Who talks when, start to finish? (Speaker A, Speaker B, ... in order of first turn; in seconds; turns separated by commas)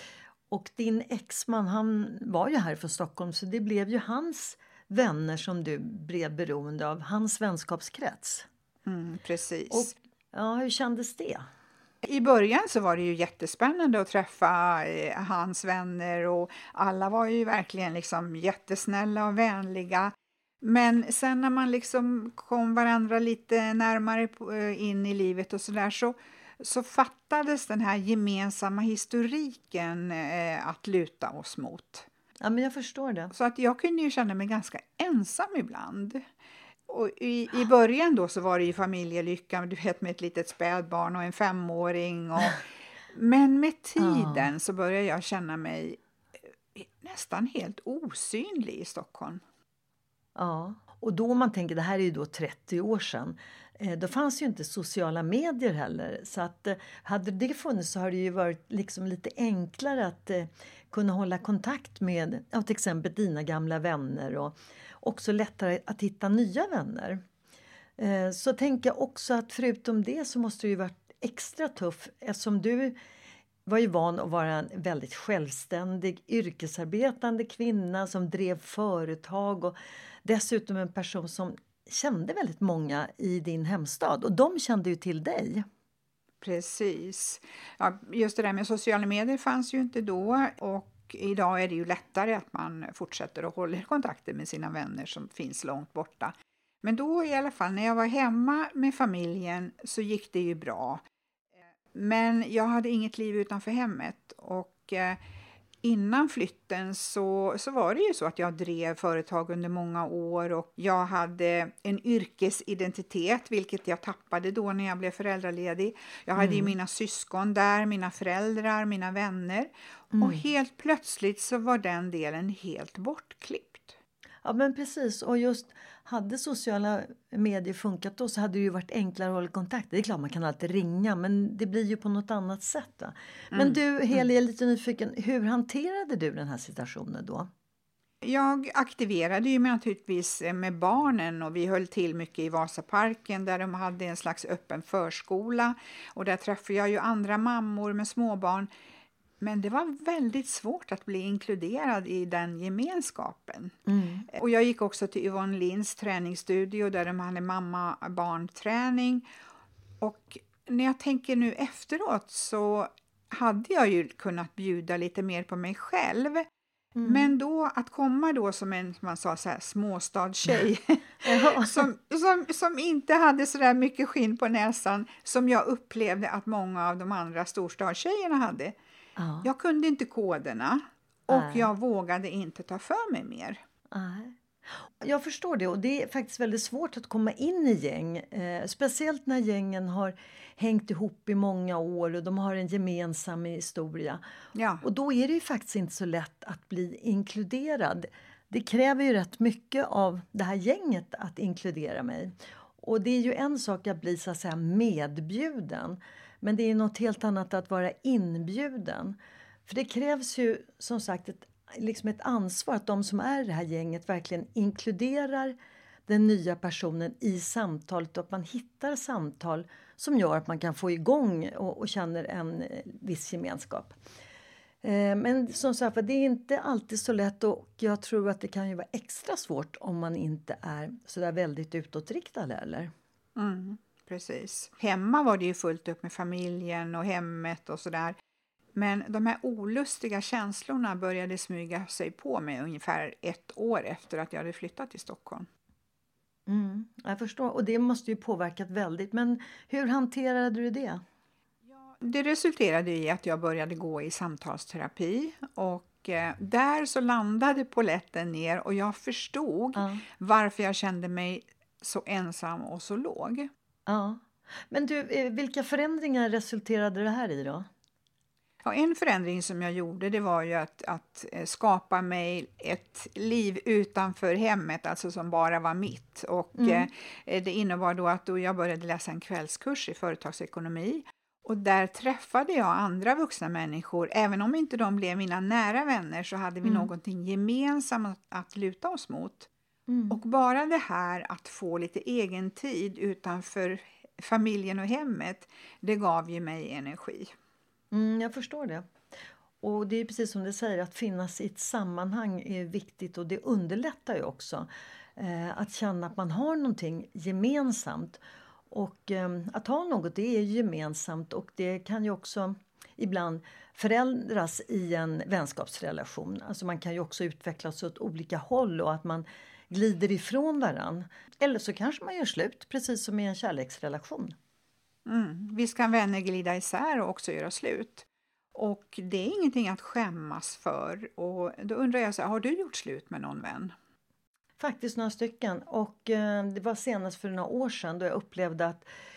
Speaker A: 0.5-8.5, Speaker B: 8.9-9.9, Speaker A: 9.7-11.5, Speaker B: 12.0-32.1, Speaker A: 32.4-33.3, Speaker B: 33.3-36.2, Speaker B: 36.9-46.0, Speaker A: 44.0-44.5, Speaker B: 46.8-49.4, Speaker A: 50.4-67.2, Speaker A: 68.0-73.0, Speaker A: 73.7-85.7, Speaker B: 86.4-101.0, Speaker B: 101.9-105.2, Speaker B: 105.8-124.0, Speaker A: 116.4-116.7, Speaker A: 120.1-120.4, Speaker A: 124.4-137.5, Speaker B: 133.5-134.2, Speaker B: 138.2-148.7, Speaker B: 149.4-153.8, Speaker A: 153.9-154.3, Speaker B: 154.3-159.3, Speaker B: 160.0-166.5, Speaker A: 167.0-167.4, Speaker B: 167.1-178.8, Speaker A: 171.2-171.9, Speaker A: 179.2-179.5, Speaker B: 179.4-183.6, Speaker A: 181.3-181.7, Speaker A: 183.9-194.2, Speaker B: 194.6-194.8, Speaker A: 194.8-215.6, Speaker A: 216.1-224.0, Speaker A: 224.8-232.9, Speaker B: 233.4-238.2, Speaker B: 238.8-245.5, Speaker A: 246.5-251.0, Speaker B: 251.7-263.5, Speaker A: 259.8-260.0, Speaker A: 263.9-267.7, Speaker B: 268.6-289.5, Speaker A: 276.6-276.9, Speaker A: 286.6-286.9, Speaker A: 289.9-290.2, Speaker B: 290.1-297.3, Speaker A: 297.9-298.9, Speaker A: 299.6-308.2, Speaker A: 308.7-324.4, Speaker B: 325.1-333.7, Speaker A: 334.6-338.9